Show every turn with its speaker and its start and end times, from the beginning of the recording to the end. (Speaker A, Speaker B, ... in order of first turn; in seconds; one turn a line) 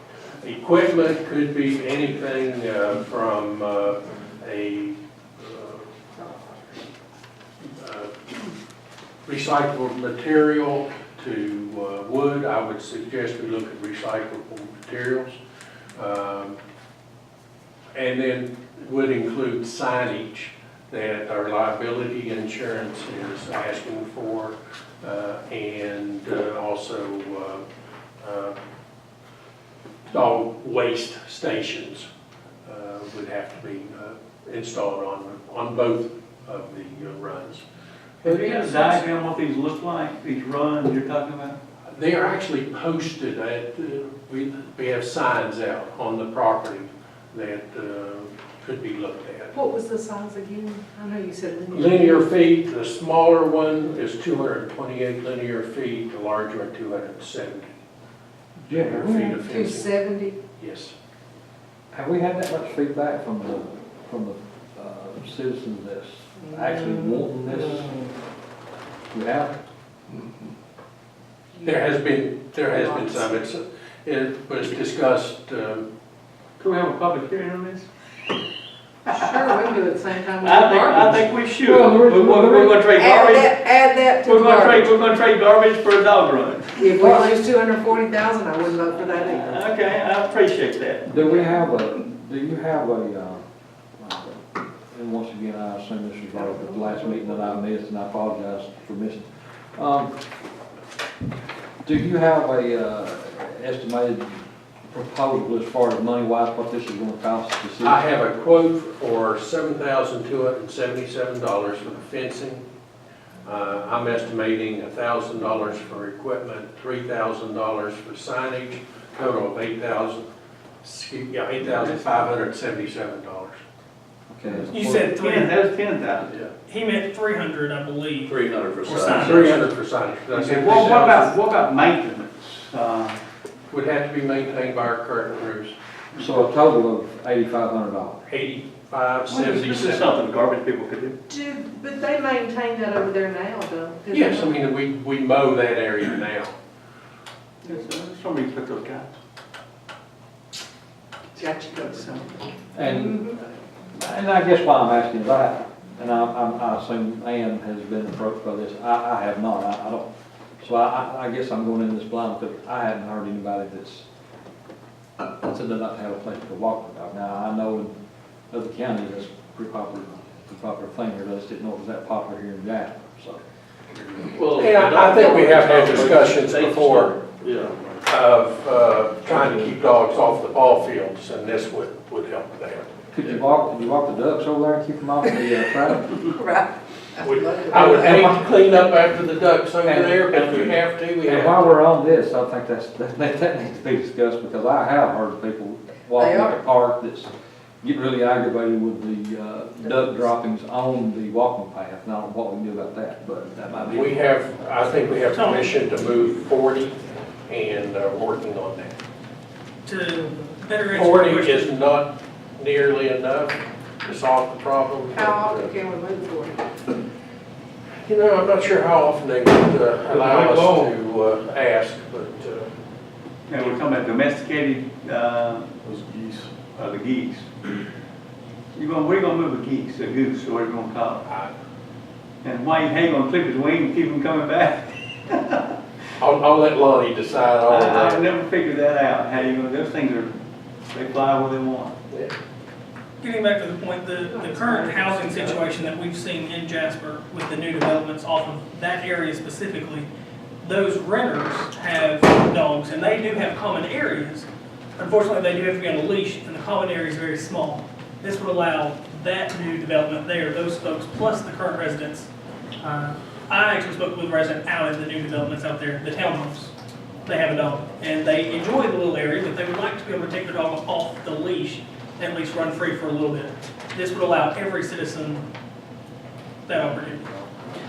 Speaker A: 0.4-5.9
Speaker A: 7.7-8.1
Speaker A: 9.2-15.4
Speaker A: 15.9-16.6
Speaker A: 17.9-27.6
Speaker A: 28.2-28.6
Speaker A: 30.1-32.1
Speaker A: 32.6-37.6
Speaker A: 38.2-39.1
Speaker B: 38.2-41.6
Speaker A: 41.9-49.5
Speaker C: 49.5-52.2
Speaker A: 51.7-57.7
Speaker D: 58.7-59.4
Speaker A: 58.7-60.0
Speaker C: 59.4-60.3
Speaker A: 60.6-60.9
Speaker D: 61.9-68.0
Speaker D: 69.1-69.6
Speaker A: 71.6-75.8
Speaker B: 76.6-77.9
Speaker B: 79.1-79.7
Speaker C: 79.1-81.2
Speaker B: 80.4-86.8
Speaker D: 81.6-82.8
Speaker C: 82.9-84.8
Speaker C: 86.8-89.6
Speaker D: 87.0-87.3
Speaker B: 89.2-91.1
Speaker D: 91.0-93.4
Speaker D: 94.0-100.1
Speaker D: 101.8-108.0
Speaker A: 107.8-112.6
Speaker A: 113.4-120.3
Speaker A: 120.8-123.6
Speaker D: 124.3-125.1
Speaker E: 124.5-125.7
Speaker B: 125.0-126.3
Speaker E: 126.7-129.7
Speaker F: 128.2-129.6
Speaker A: 129.1-131.3
Speaker B: 130.3-133.2
Speaker A: 133.7-135.8
Speaker D: 136.2-138.2
Speaker A: 138.3-140.1
Speaker B: 139.3-141.2
Speaker C: 141.3-144.6
Speaker A: 144.1-146.6
Speaker B: 147.6-149.1
Speaker C: 151.4-152.3
Speaker D: 152.8-160.1
Speaker C: 152.8-153.3
Speaker D: 160.6-164.1
Speaker D: 165.2-167.9
Speaker D: 168.5-173.4
Speaker F: 174.2-178.0
Speaker A: 174.5-177.2
Speaker A: 178.1-183.3
Speaker D: 183.1-186.2
Speaker A: 187.2-191.8
Speaker B: 189.8-190.8
Speaker D: 191.2-197.3
Speaker D: 197.8-204.2
Speaker A: 203.9-209.0
Speaker E: 205.3-205.7
Speaker E: 209.8-211.7
Speaker A: 210.9-215.7
Speaker C: 215.1-216.6
Speaker A: 218.0-222.7
Speaker F: 220.2-220.9
Speaker B: 223.5-227.7
Speaker F: 225.8-226.6
Speaker B: 228.7-231.2
Speaker A: 231.2-231.5
Speaker B: 232.4-235.8
Speaker A: 236.2-238.2
Speaker B: 237.7-241.9
Speaker E: 243.2-250.1
Speaker C: 244.3-245.6
Speaker E: 250.6-262.3
Speaker E: 262.8-266.7
Speaker E: 267.2-275.4
Speaker E: 276.7-277.4